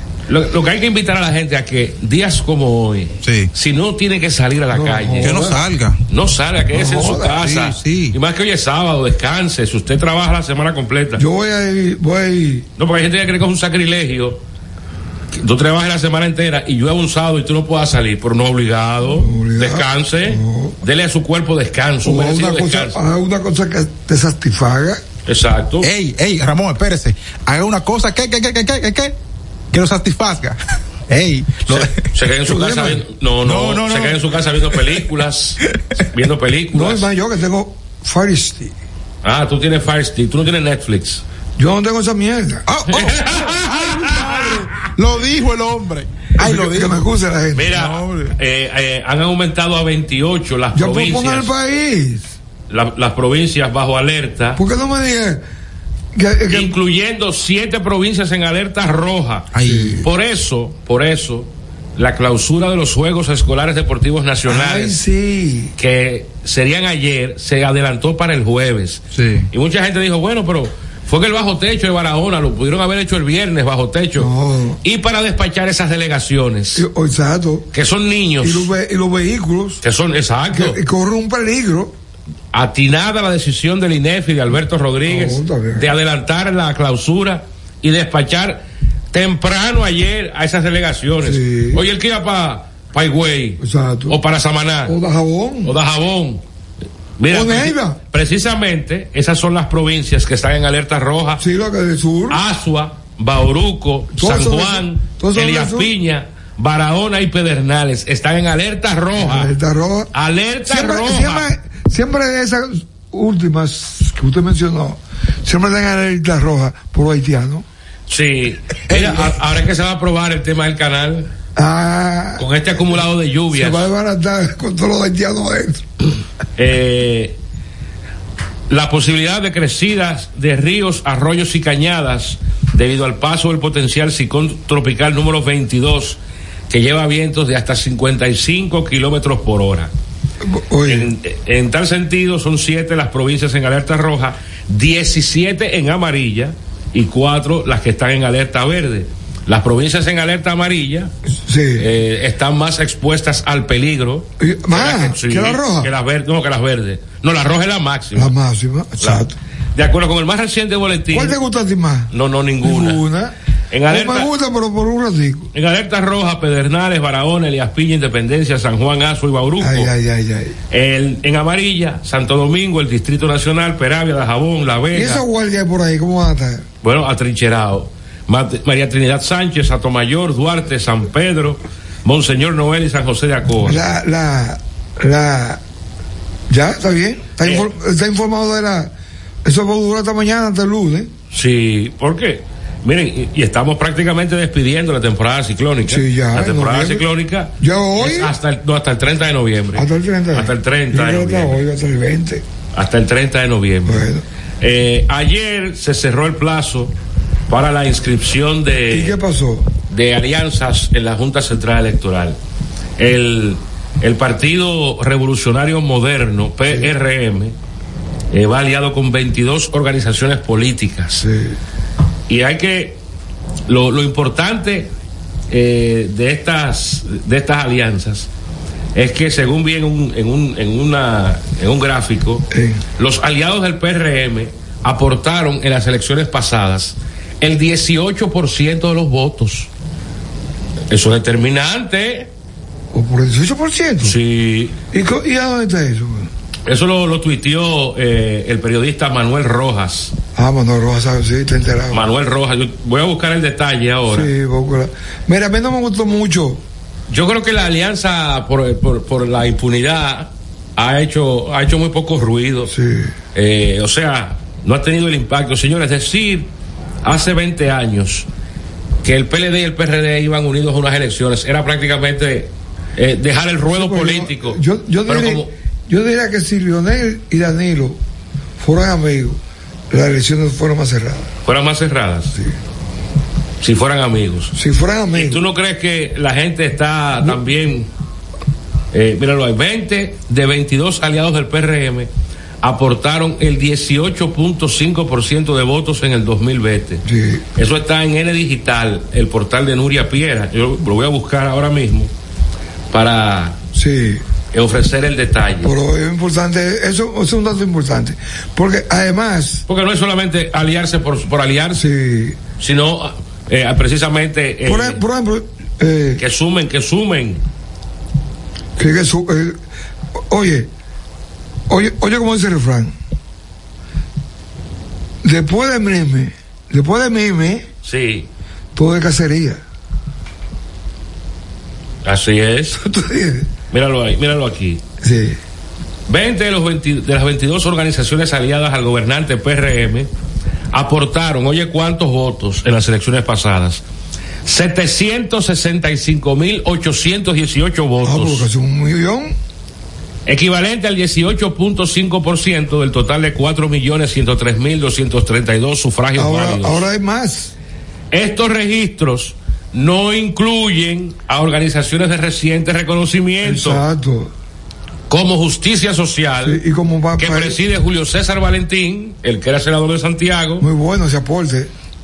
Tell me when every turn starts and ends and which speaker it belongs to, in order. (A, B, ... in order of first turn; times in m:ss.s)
0:00.3-0:05.4 A
0:03.2-0:03.5 B
0:04.7-0:05.6 C
0:05.2-0:06.0 B
0:06.1-0:11.2 A
0:06.7-0:07.5 C
0:07.3-0:08.2 B
0:11.2-0:12.7 C
0:12.8-0:14.4 A
0:15.4-0:23.0 A
0:19.0-0:20.8 C
0:22.0-0:25.0 C
0:25.2-0:25.9 A
0:25.8-0:29.2 B
0:29.7-0:30.6 B
0:31.1-0:35.0 B
0:31.7-0:35.6 A
0:36.1-0:37.1 A
0:36.7-0:38.7 C
0:39.2-0:41.2 A
0:41.6-0:42.7 C
0:42.7-0:47.0 B
0:42.9-0:44.5 A
0:46.4-0:47.7 C
0:47.5-0:51.5 A
0:47.7-0:48.3 B
0:50.7-0:52.3 C
0:52.7-0:54.6 A
0:54.6-0:55.4 C
0:56.1-0:56.8 C
0:56.5-0:59.5 A
0:59.5-1:00.0 B
0:59.6-1:00.0 C
1:00.0-1:05.0 A
1:04.4-1:05.7 C
1:05.8-1:14.3 A
1:09.1-1:09.5 B
1:14.2-1:14.8 C
1:14.8-1:16.8 A
1:16.7-1:17.7 C
1:17.7-1:18.7 A
1:18.4-1:19.8 C
1:19.8-1:20.8 A
1:20.5-1:21.9 C
1:22.5-1:35.0 A
1:25.0-1:25.9 C
1:31.2-1:31.8 C
1:33.6-1:34.2 C
1:34.8-1:35.8 C
1:35.6-1:36.4 A
1:37.2-1:41.4 A
1:37.3-1:38.0 C
1:41.4-1:42.4 C
1:42.3-1:49.5 A
1:44.1-1:45.9 C
1:49.2-1:50.1 C
1:50.1-1:51.5 A
1:50.7-1:57.6 C
1:58.1-2:01.3 A
1:58.9-1:59.4 B
2:01.5-2:05.8 C
2:02.4-2:03.9 A
2:06.6-2:07.4 A
2:08.7-2:19.9 A
2:20.4-2:21.1 C
2:20.8-2:31.1 A
2:31.4-2:31.9 C
2:31.8-2:38.3 A
2:34.4-2:35.9 C
2:38.1-2:39.4 C
2:39.0-2:41.4 A
2:41.1-2:42.1 C
2:42.1-2:43.0 A
2:42.6-2:43.3 C
2:43.7-2:44.3 A
2:43.9-2:45.5 C
2:45.5-2:49.9 A
2:49.6-2:50.6 C
2:50.7-2:55.2 A
2:54.9-2:56.6 C
2:56.8-3:03.9 A
3:03.6-3:05.6 C
3:06.5-3:08.9 C
3:07.4-3:07.7 A
3:09.4-3:11.1 C
3:11.3-3:21.6 A
3:15.8-3:17.1 C
3:17.6-3:18.3 C
3:19.7-3:22.4 C
3:22.7-3:24.0 A
3:23.8-3:24.2 C
3:24.6-3:26.9 A
3:27.5-3:29.2 A
3:28.9-3:29.7 C
3:29.9-3:32.4 A
3:33.0-3:37.5 A
3:38.3-3:41.2 A
3:41.2-3:41.6 C
3:42.3-3:43.0 A
3:43.7-3:44.9 A
3:45.5-3:48.3 A
3:48.9-3:52.5 A
3:52.5-3:52.8 C
3:53.0-3:59.7 A
4:00.9-4:02.3 A
4:02.9-4:04.2 C
4:04.0-4:04.8 A
4:04.9-4:06.3 C
4:06.7-4:10.1 A
4:10.3-4:12.1 C
4:11.9-4:14.3 A
4:14.1-4:16.6 C
4:17.1-4:22.7 A
4:22.6-4:23.1 C
4:23.3-4:26.5 A
4:27.0-4:28.3 A
4:29.0-4:35.5 A
4:33.7-4:38.0 C
4:38.6-4:41.3 C
4:41.4-4:42.4 A
4:43.6-4:44.5 A
4:44.5-4:45.5 C
4:45.1-4:47.9 A
4:48.9-4:52.1 A
4:52.6-4:57.0 A
4:57.0-4:57.4 C
4:57.6-5:02.1 A
5:02.9-5:03.6 A
5:03.7-5:04.2 C
5:04.5-5:05.7 A
5:05.6-5:09.6 C
5:09.7-5:11.8 A
5:11.7-5:12.4 C
5:12.6-5:15.0 A
5:14.6-5:16.2 C
5:16.2-5:17.4 A
5:18.8-5:19.6 C
5:20.3-5:20.7 C
5:21.7-5:23.0 C
5:25.2-5:27.7 C
5:27.8-5:28.3 A
5:28.7-5:29.6 C
5:32.0-5:32.8 A
5:32.7-5:33.5 C
5:33.7-5:34.8 A
5:35.0-5:35.4 C
5:36.1-5:40.1 A
5:40.7-5:43.8 A
5:44.4-5:48.5 A
5:48.0-5:49.4 C
5:50.2-5:56.8 A
5:56.1-5:57.5 C
5:58.1-6:03.8 A
6:03.4-6:04.3 C
6:05.1-6:06.6 A
6:06.4-6:07.6 C
6:07.2-6:10.7 A
6:10.6-6:11.7 C